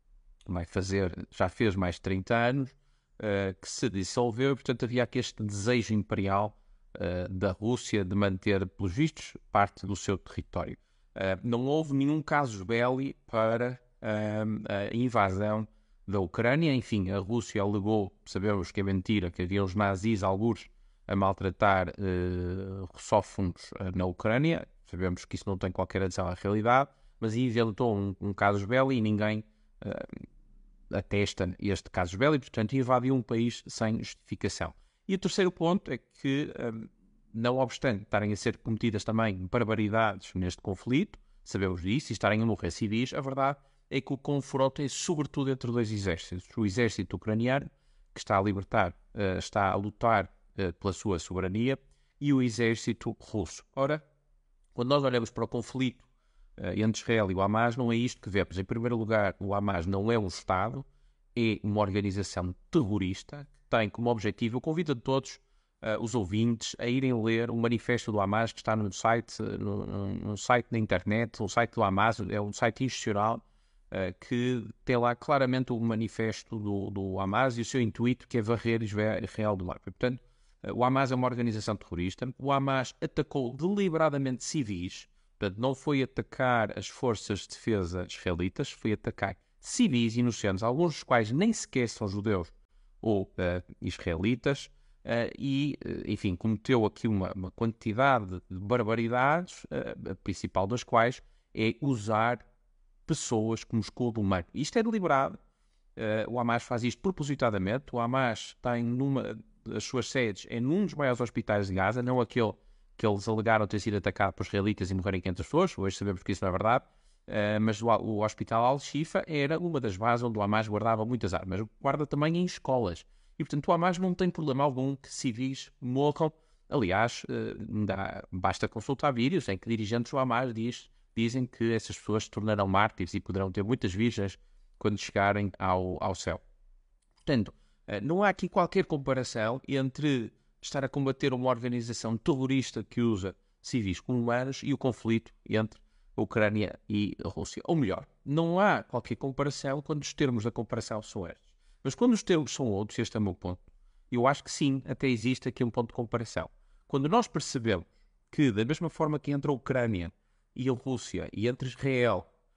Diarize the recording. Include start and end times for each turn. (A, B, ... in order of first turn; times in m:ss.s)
0:00.5-0:30.2 A
0:30.9-0:54.0 A
0:54.7-0:56.1 A
0:56.6-1:42.4 A
1:43.1-1:45.4 A
1:46.0-2:16.4 A
2:17.2-2:33.6 A
2:34.1-2:42.3 A